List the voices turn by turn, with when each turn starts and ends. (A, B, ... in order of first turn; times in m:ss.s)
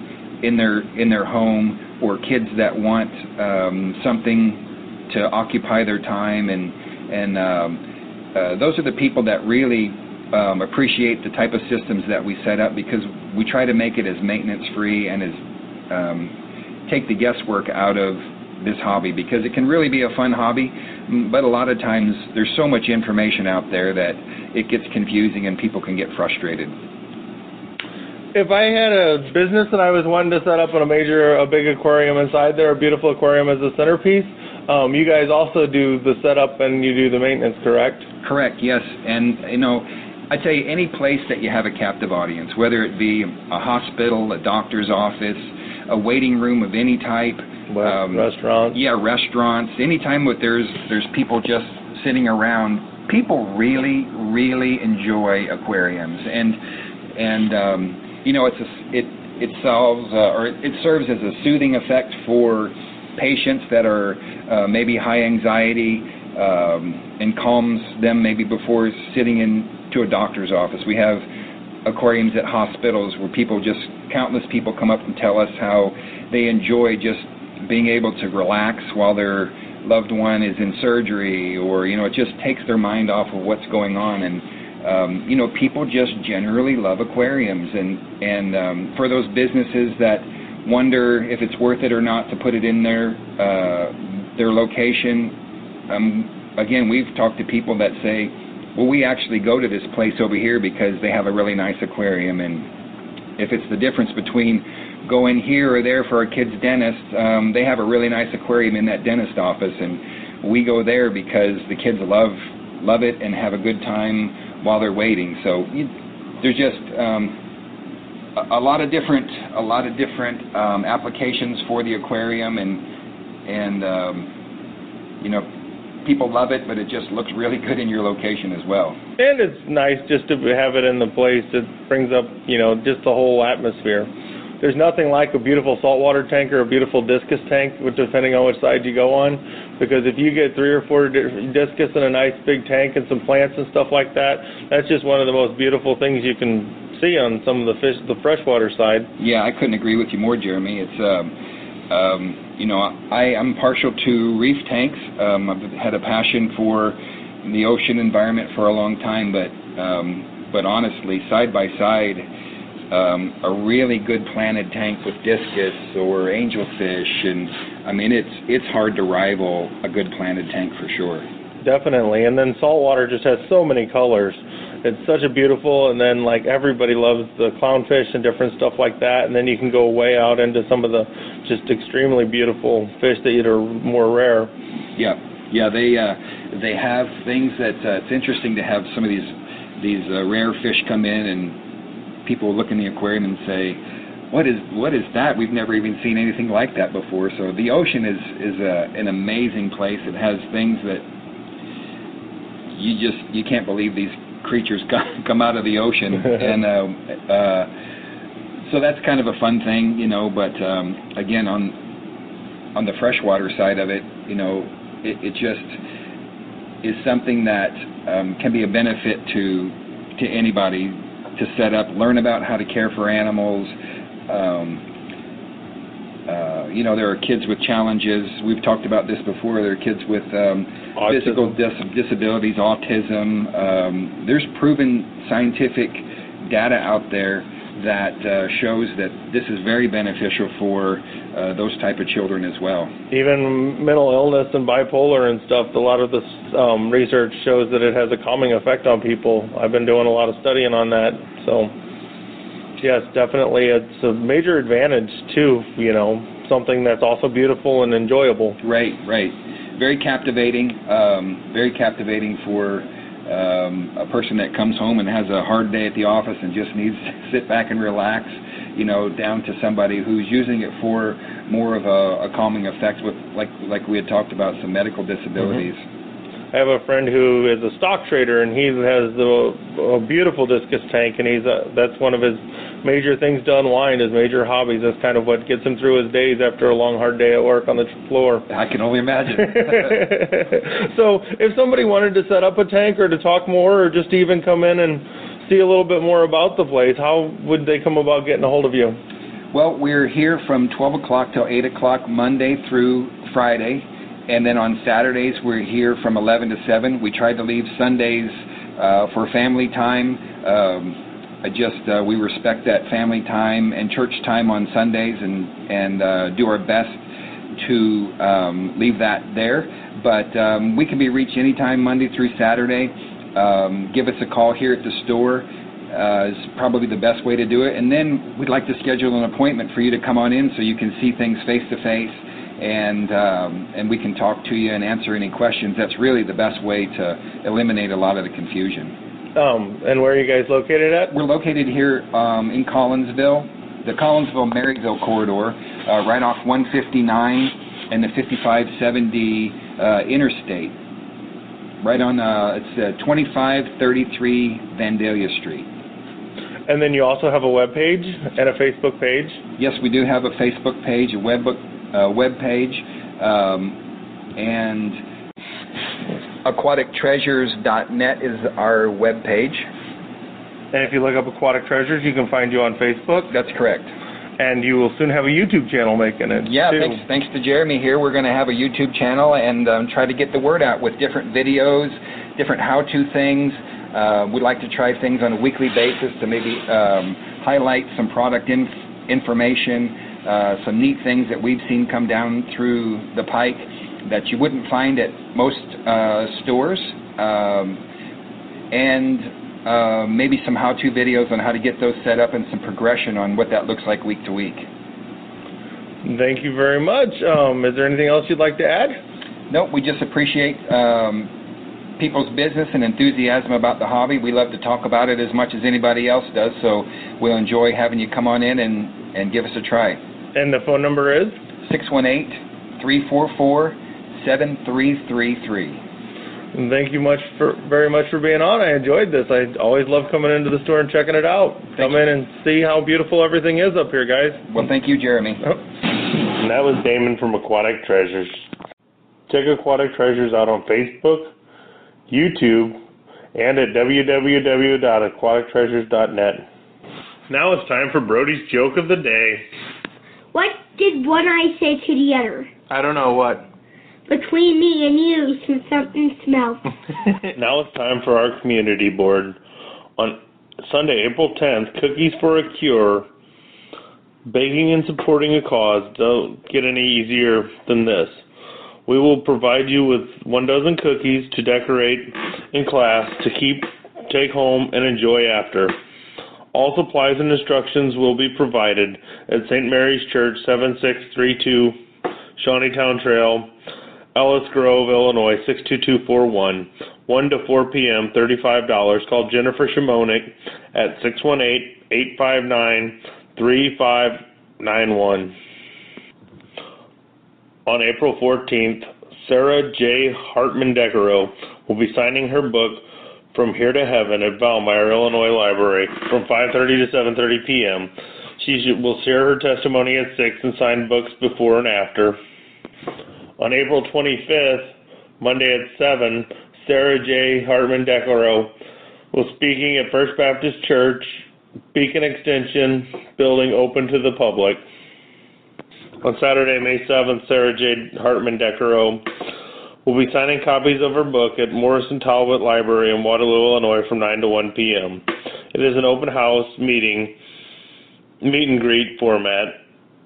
0:00.4-0:07.8 A
0:08.4-0:26.8 A
0:28.3-0:38.1 B
0:38.2-0:56.6 A
0:47.7-0:48.8 B
0:57.2-1:11.3 A
1:11.8-1:35.4 A
1:35.9-1:42.7 A
1:43.4-1:57.4 A
1:58.4-2:02.8 A
2:03.5-2:04.3 A
2:05.2-2:05.5 A
2:06.0-2:09.0 A
2:09.2-2:14.1 B
2:14.6-2:29.1 B
2:29.2-2:31.3 A
2:31.9-2:42.3 A
2:42.9-2:51.3 A
2:51.6-3:04.5 B
3:05.0-3:11.6 A
3:12.2-3:21.1 A
3:22.7-3:27.7 A
3:28.7-3:31.8 A
3:32.8-3:35.8 A
3:36.8-3:43.8 A
3:44.3-3:44.8 A
3:46.3-4:02.9 A
3:51.0-3:51.6 B
4:03.1-4:11.7 B
4:12.8-4:18.6 B
4:18.6-4:35.8 A
4:36.5-4:48.4 B
4:48.5-4:50.0 A
4:49.5-4:59.0 B
4:59.5-5:17.0 A
5:17.6-5:39.0 A
5:39.4-5:41.2 B
5:41.1-5:50.8 A
5:51.8-5:55.7 A
5:56.7-5:59.4 B
5:59.6-6:03.8 A
6:04.4-6:05.0 A
6:06.4-6:09.7 A
6:10.7-6:13.3 B
6:13.3-6:13.9 A
6:14.4-6:17.0 B
6:16.3-6:37.8 A
6:38.7-6:44.7 A
6:46.0-6:49.0 B
6:49.5-6:51.3 A
6:52.0-7:00.0 A
7:00.4-7:01.4 B
7:01.6-7:05.8 A
7:06.5-7:14.4 B
7:14.5-7:15.4 A
7:16.3-7:18.5 B
7:19.3-7:21.3 B
7:22.1-7:22.8 B
7:23.4-7:26.5 B
7:27.3-7:29.4 B
7:30.3-7:32.5 C
7:32.7-7:33.5 B
7:34.1-7:36.6 C
7:37.4-7:39.4 B
7:40.0-7:43.1 B
7:44.3-7:48.2 B
7:48.9-7:55.7 B
7:56.5-8:01.8 B
8:02.4-8:03.5 B
8:04.2-8:15.4 B
8:17.7-8:32.2 B
8:33.4-8:38.5 B
8:39.1-8:44.6 B
8:46.0-8:49.1 B
8:49.8-8:57.2 B
8:58.2-8:59.6 B